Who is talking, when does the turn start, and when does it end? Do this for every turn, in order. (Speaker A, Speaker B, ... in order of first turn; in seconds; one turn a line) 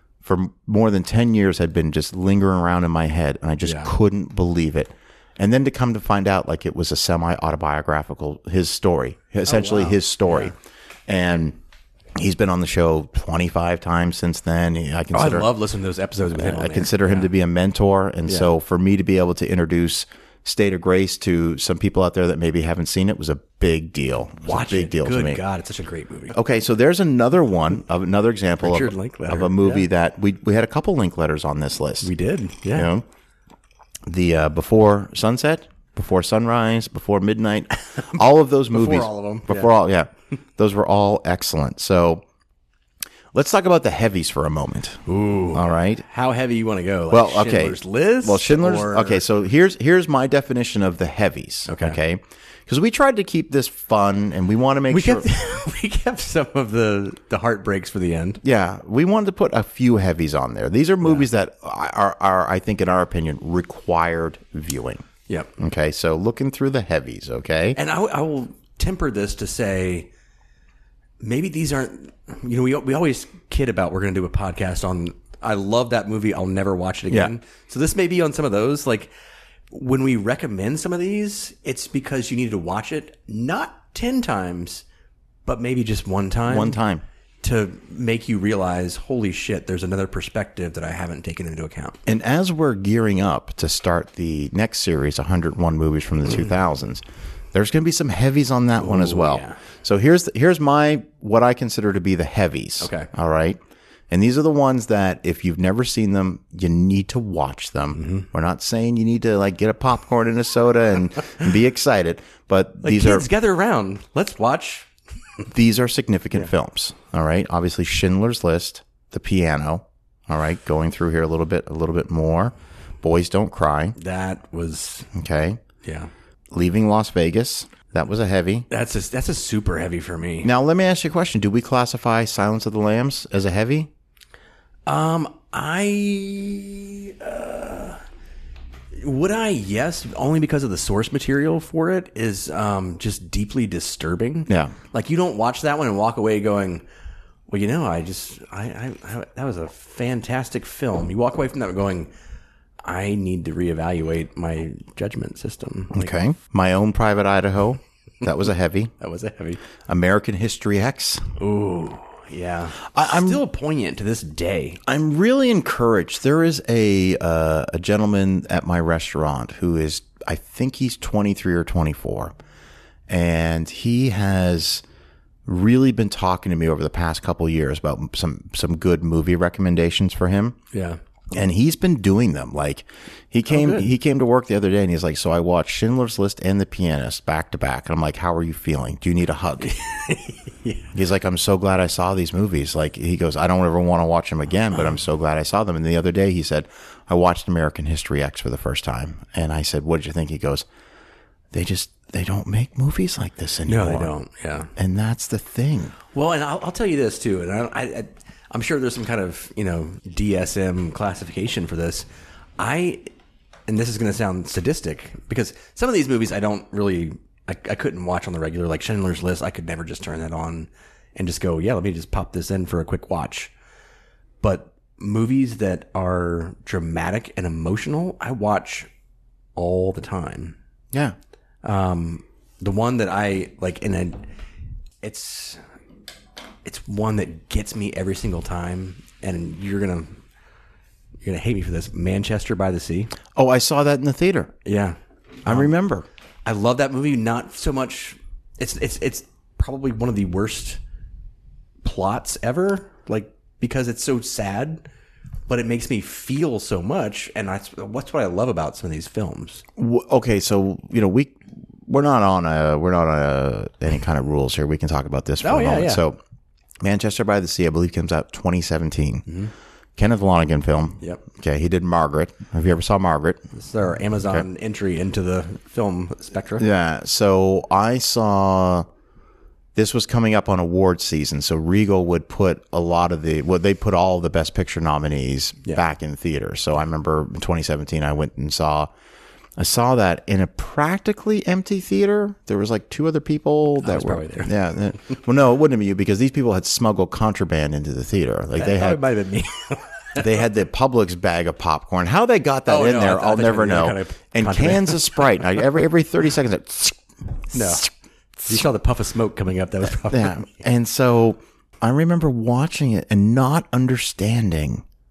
Speaker A: 0.2-10.6
Speaker B: 3.6-3.9
Speaker B: 9.5-10.5
Speaker A: 11.1-11.6
Speaker A: 12.2-15.5
Speaker B: 15.1-17.3
Speaker A: 16.3-25.4
Speaker B: 24.4-26.4
Speaker A: 26.3-32.1
Speaker B: 28.6-29.9
Speaker B: 32.0-32.9
Speaker A: 32.7-33.0
Speaker A: 34.1-42.2
Speaker B: 38.7-39.7
Speaker A: 43.3-46.0
Speaker B: 45.1-49.2
Speaker A: 47.1-55.3
Speaker B: 51.7-52.0
Speaker B: 54.9-58.4
Speaker A: 58.4-65.1
Speaker B: 65.3-65.5
Speaker A: 65.6-67.8
Speaker B: 67.8-70.1
Speaker B: 71.2-79.1
Speaker B: 79.7-84.8
Speaker B: 85.5-86.8
Speaker A: 86.5-87.0
Speaker B: 87.4-92.0
Speaker A: 92.1-103.6
Speaker B: 98.8-99.6
Speaker B: 102.8-103.1
Speaker A: 104.1-113.3
Speaker B: 108.0-108.3
Speaker B: 112.8-114.9
Speaker A: 115.5-124.0
Speaker B: 124.0-125.1
Speaker A: 125.1-125.6
Speaker B: 125.8-126.1
Speaker A: 126.5-128.7
Speaker B: 128.7-130.5
Speaker A: 130.4-133.9
Speaker B: 134.9-138.0
Speaker B: 139.0-146.8
Speaker A: 144.5-144.7
Speaker B: 147.5-152.1
Speaker B: 152.8-156.1
Speaker A: 155.9-158.9
Speaker B: 159.0-159.6
Speaker A: 159.9-161.2
Speaker B: 161.4-164.8
Speaker A: 162.9-163.4
Speaker A: 164.9-172.3
Speaker A: 173.1-174.8
Speaker A: 175.4-180.6
Speaker B: 180.7-181.0
Speaker A: 181.3-189.8
Speaker B: 183.5-183.9
Speaker B: 189.6-190.9
Speaker A: 190.9-200.7
Speaker A: 201.5-204.2
Speaker B: 203.7-204.7
Speaker A: 204.8-206.0
Speaker B: 206.1-212.1
Speaker B: 212.6-213.1
Speaker B: 213.7-223.5
Speaker B: 224.4-228.9
Speaker B: 229.6-230.6
Speaker B: 231.6-234.2
Speaker B: 235.0-235.6
Speaker B: 236.7-240.2
Speaker B: 241.2-243.1
Speaker A: 243.3-244.5
Speaker B: 244.7-245.7
Speaker A: 245.4-246.1
Speaker B: 246.5-250.8
Speaker B: 251.8-254.8
Speaker B: 255.5-259.6
Speaker A: 259.8-266.2
Speaker B: 265.4-266.0
Speaker A: 266.8-269.3
Speaker A: 270.0-273.4
Speaker B: 273.6-276.7
Speaker A: 276.6-278.9
Speaker A: 279.8-288.9
Speaker A: 289.6-299.0
Speaker B: 293.8-294.5
Speaker B: 298.6-300.3
Speaker A: 300.2-307.9
Speaker B: 302.7-305.4
Speaker B: 307.5-310.5
Speaker A: 310.1-314.8